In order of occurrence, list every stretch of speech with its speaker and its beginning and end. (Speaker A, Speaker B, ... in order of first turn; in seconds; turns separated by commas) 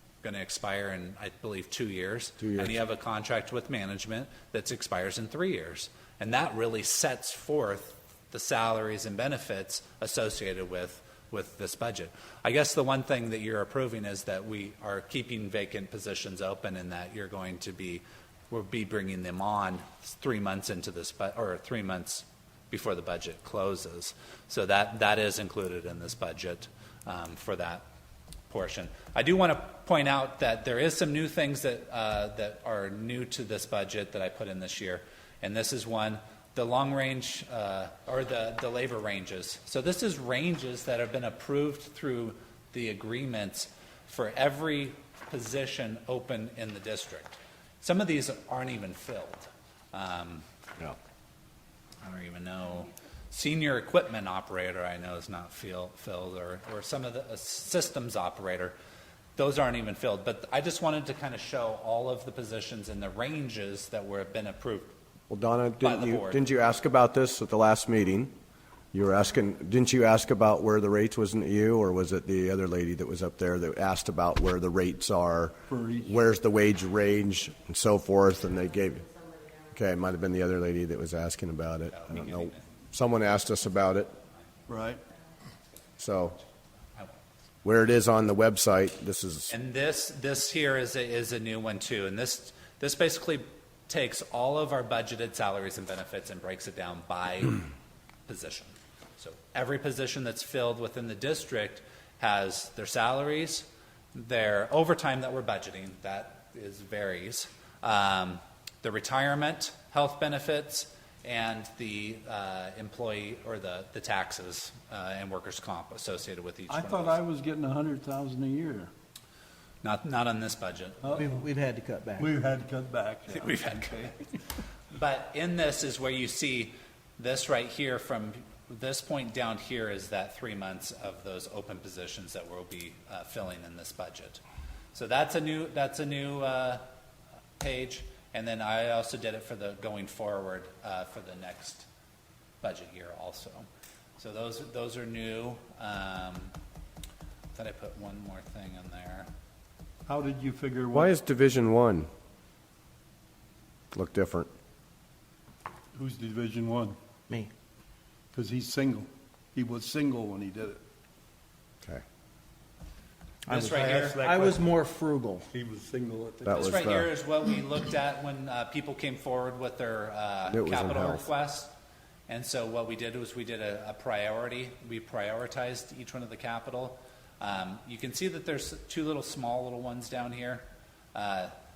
Speaker A: 0.2-27.8, Speaker B: 2.4-2.8, Speaker A: 28.5-50.4, Speaker A: 52.0-58.8, Speaker A: 59.4-64.9, Speaker B: 65.3-68.3, Speaker A: 65.8-66.4, Speaker B: 68.9-79.1, Speaker C: 75.7-76.2, Speaker B: 79.7-84.1, Speaker A: 81.9-82.7, Speaker C: 84.7-85.0, Speaker B: 86.0-86.4, Speaker B: 87.6-89.5, Speaker A: 89.5-97.6, Speaker A: 98.3-117.2, Speaker C: 116.7-118.9, Speaker A: 119.8-121.2, Speaker C: 121.0-121.4, Speaker D: 121.1-122.3, Speaker C: 122.2-124.1, Speaker A: 123.3-124.2, Speaker A: 124.9-134.4, Speaker A: 134.9-136.8, Speaker A: 137.6-141.9, Speaker A: 142.6-143.7, Speaker A: 144.2-146.5, Speaker A: 147.5-149.3, Speaker C: 150.1-151.1, Speaker B: 150.9-152.1, Speaker B: 153.9-154.5, Speaker C: 155.9-157.0, Speaker C: 158.3-160.8, Speaker D: 163.4-165.5, Speaker C: 163.5-164.7, Speaker A: 163.5-164.2, Speaker C: 165.5-166.7, Speaker B: 166.4-167.1, Speaker A: 166.5-171.7, Speaker B: 170.5-171.3, Speaker A: 172.3-181.5